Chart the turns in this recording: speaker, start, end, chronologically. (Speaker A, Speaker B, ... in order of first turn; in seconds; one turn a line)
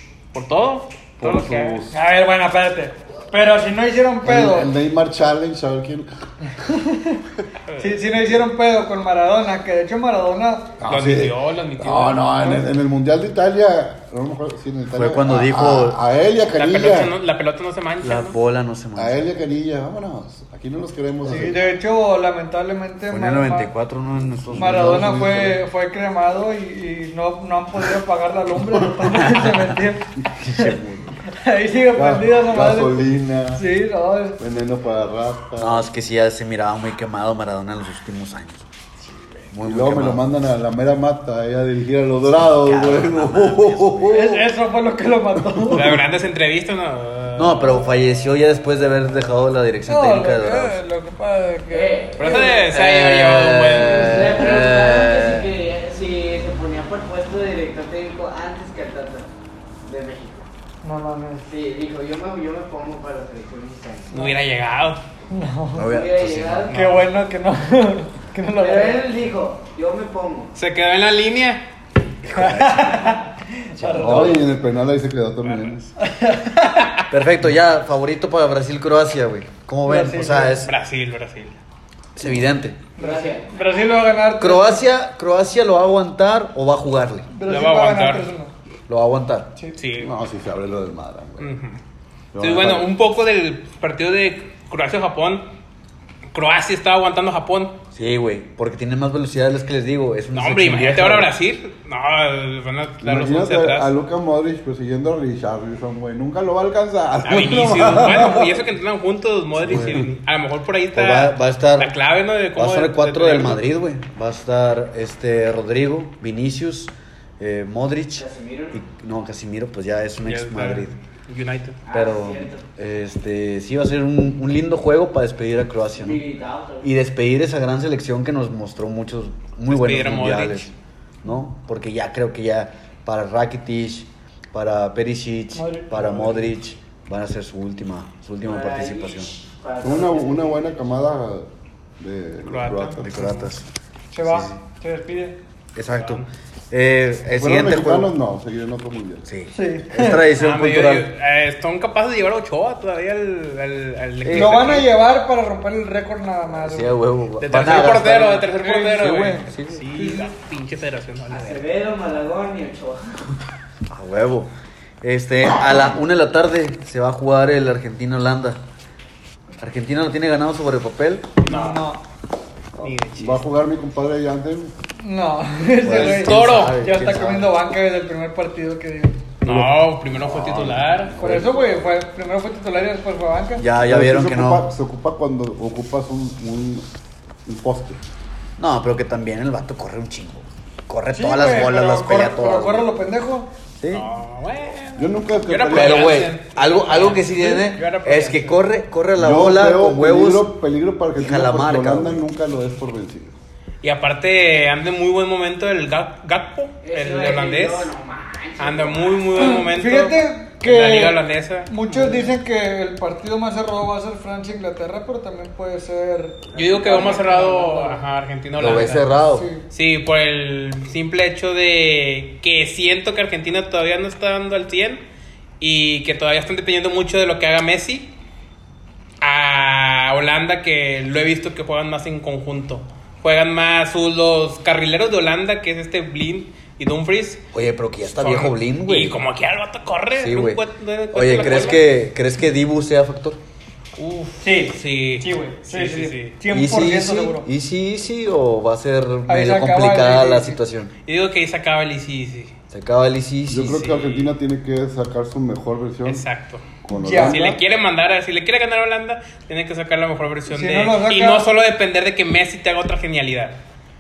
Speaker A: 0.3-1.8
Speaker B: 1.2-2.0
Speaker C: 1.9-4.7
Speaker B: 4.2-6.1
Speaker C: 6.5-7.2
Speaker C: 7.8-10.7
Speaker B: 10.8-17.1
Speaker A: 10.9-12.6
Speaker D: 14.9-16.0
Speaker A: 16.5-18.4
Speaker D: 18.0-19.2
Speaker B: 19.0-21.6
Speaker C: 21.3-23.7
Speaker D: 23.1-25.2
Speaker B: 24.4-25.6
Speaker C: 24.6-30.8
Speaker D: 29.2-29.6
Speaker D: 30.4-31.1
Speaker B: 30.6-31.1
Speaker C: 31.3-34.4
Speaker B: 31.9-33.7
Speaker B: 34.4-35.9
Speaker D: 35.6-38.7
Speaker D: 39.5-40.2
Speaker B: 39.6-44.5
Speaker D: 42.2-44.4
Speaker C: 44.1-46.0
Speaker A: 45.7-47.8
Speaker D: 47.4-50.8
Speaker C: 49.9-52.6
Speaker E: 51.7-52.4
Speaker A: 52.2-54.2
Speaker D: 52.7-55.5
Speaker C: 53.9-54.6
Speaker E: 54.0-59.3
Speaker E: 59.8-60.5
Speaker C: 60.8-61.5
Speaker E: 61.4-64.2
Speaker A: 64.1-65.0
Speaker C: 65.3-65.9
Speaker D: 65.8-66.7
Speaker E: 65.8-66.9
Speaker A: 66.7-67.1
Speaker C: 66.7-69.1
Speaker E: 68.6-70.5
Speaker A: 70.5-71.6
Speaker D: 72.2-73.2
Speaker C: 72.3-74.4
Speaker D: 73.8-74.4
Speaker B: 74.0-75.8
Speaker A: 75.4-75.9
Speaker C: 76.0-76.9
Speaker D: 77.1-80.7
Speaker C: 79.8-80.7
Speaker A: 80.7-81.6
Speaker D: 82.2-82.8
Speaker C: 83.0-84.8
Speaker E: 83.0-83.5
Speaker D: 84.4-87.3
Speaker C: 87.3-88.5
Speaker A: 87.5-88.3
Speaker D: 88.9-89.5
Speaker A: 89.8-90.1
Speaker B: 90.0-91.5
Speaker A: 91.4-91.8
Speaker B: 92.3-92.9
Speaker A: 92.4-95.5
Speaker A: 96.3-97.8
Speaker D: 97.9-101.3
Speaker A: 100.3-103.9
Speaker B: 103.0-108.7
Speaker A: 107.2-113.6
Speaker D: 109.6-110.1
Speaker D: 110.9-111.9
Speaker D: 112.6-121.0
Speaker E: 118.2-118.8
Speaker A: 120.2-121.8
Speaker E: 121.9-122.7
Speaker D: 121.9-126.2
Speaker E: 126.0-126.9
Speaker D: 126.8-130.7
Speaker A: 129.7-130.7
Speaker D: 131.2-139.3
Speaker C: 135.6-136.5
Speaker E: 138.4-140.7
Speaker B: 139.8-141.5
Speaker B: 142.0-143.2
Speaker A: 142.4-143.5
Speaker D: 143.0-143.7
Speaker C: 144.1-145.4
Speaker D: 144.2-144.6
Speaker D: 145.8-148.1
Speaker A: 145.9-146.3
Speaker B: 147.4-149.3
Speaker D: 149.2-151.1
Speaker C: 149.5-150.2
Speaker A: 150.4-154.9
Speaker D: 154.2-154.9
Speaker C: 154.3-157.0
Speaker D: 156.5-159.9
Speaker A: 157.4-161.6
Speaker C: 158.4-160.3
Speaker E: 161.3-163.3
Speaker D: 163.9-164.5
Speaker D: 165.0-168.6
Speaker D: 169.6-171.3
Speaker A: 171.4-171.8
Speaker C: 171.4-172.0
Speaker A: 172.8-173.4
Speaker B: 172.8-174.7
Speaker C: 175.0-179.2
Speaker D: 175.8-177.7
Speaker A: 175.9-176.8
Speaker A: 179.4-181.2
Speaker D: 179.4-179.7
Speaker B: 180.2-181.6
Speaker C: 181.2-183.7
Speaker D: 183.6-184.7
Speaker B: 183.8-186.9
Speaker B: 187.4-188.0
Speaker D: 188.6-192.9
Speaker C: 191.1-193.5
Speaker D: 193.8-194.1
Speaker A: 193.9-198.6
Speaker B: 195.0-196.3
Speaker D: 195.7-200.5
Speaker B: 199.2-203.3
Speaker D: 201.2-202.3
Speaker A: 203.8-207.9
Speaker E: 206.8-209.2
Speaker A: 208.6-212.3
Speaker C: 209.4-216.4
Speaker E: 216.5-218.0
Speaker A: 216.6-219.2
Speaker D: 218.6-219.5
Speaker C: 219.3-219.6
Speaker A: 219.7-225.0
Speaker A: 225.6-228.1
Speaker A: 229.2-237.4
Speaker D: 237.5-239.2
Speaker A: 238.1-241.8
Speaker D: 240.2-240.6
Speaker D: 241.1-243.4
Speaker A: 244.0-246.4
Speaker C: 244.4-247.5
Speaker D: 246.5-250.9
Speaker C: 249.3-250.6
Speaker A: 251.1-252.5
Speaker D: 252.7-253.9
Speaker B: 253.5-256.2
Speaker A: 253.7-254.3
Speaker A: 256.1-256.6
Speaker B: 256.8-257.5
Speaker C: 256.9-257.6
Speaker A: 257.2-263.6
Speaker C: 260.5-261.5